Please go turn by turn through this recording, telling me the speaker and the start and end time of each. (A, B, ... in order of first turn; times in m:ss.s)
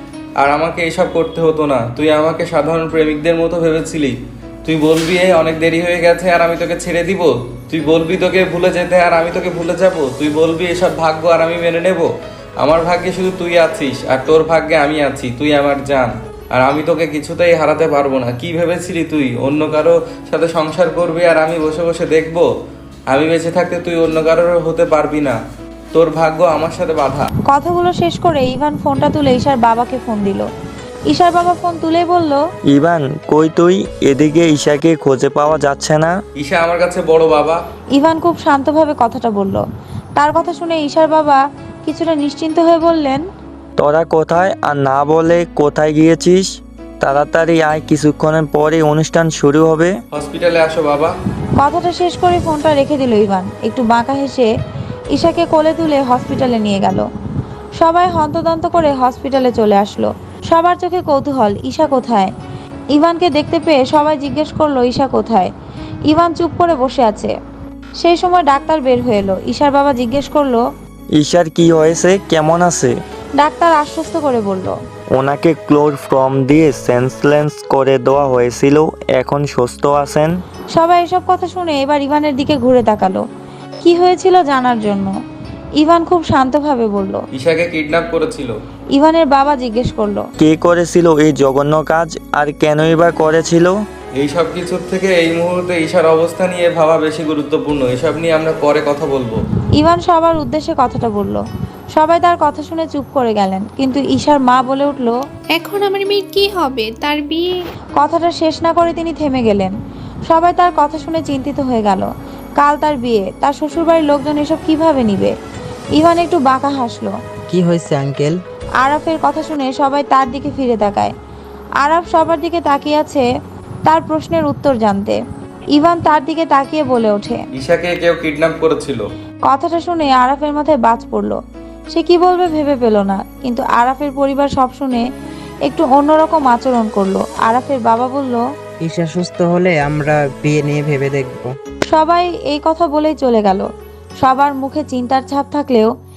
0:00.4-0:12.1 A
0:12.6-0:22.5 A
0:23.1-0:25.4 A
0:25.9-0:27.3 A
0:27.5-0:30.5 B
0:31.1-0:32.4 B
0:32.7-0:36.2 C
0:36.4-0:37.6 A
0:38.0-0:39.6 B
0:40.2-0:43.2 B
0:43.8-0:50.0 C
0:50.1-0:51.1 A
0:51.6-0:54.5 B
0:55.1-0:57.1 B
0:57.8-1:02.3 B
1:02.9-1:05.5 B
1:06.1-1:07.3 B
1:08.0-1:10.6 B
1:11.2-1:12.9 C
1:13.4-1:14.8 B
1:15.1-1:20.3 C
1:20.7-1:23.2 B
1:23.8-1:25.1 B
1:25.8-1:27.2 B
1:27.4-1:28.5 A
1:28.9-1:30.2 B
1:30.4-1:33.8 C
1:34.2-1:39.4 A
1:39.8-1:41.4 B
1:42.0-1:45.2 B
1:45.6-1:47.5 D
1:48.0-1:49.7 B
1:50.3-1:52.1 B
1:52.6-1:55.4 B
1:56.0-1:57.2 B
1:57.5-1:58.4 E
1:58.8-2:01.1 B
2:01.8-2:03.3 B
2:03.9-2:05.2 B
2:05.8-2:07.4 B
2:07.6-2:09.0 A
2:09.5-2:11.4 B
2:11.9-2:15.1 B
2:15.7-2:18.4 B
2:18.8-2:21.5 E
2:21.9-2:23.7 B
2:24.2-2:25.9 B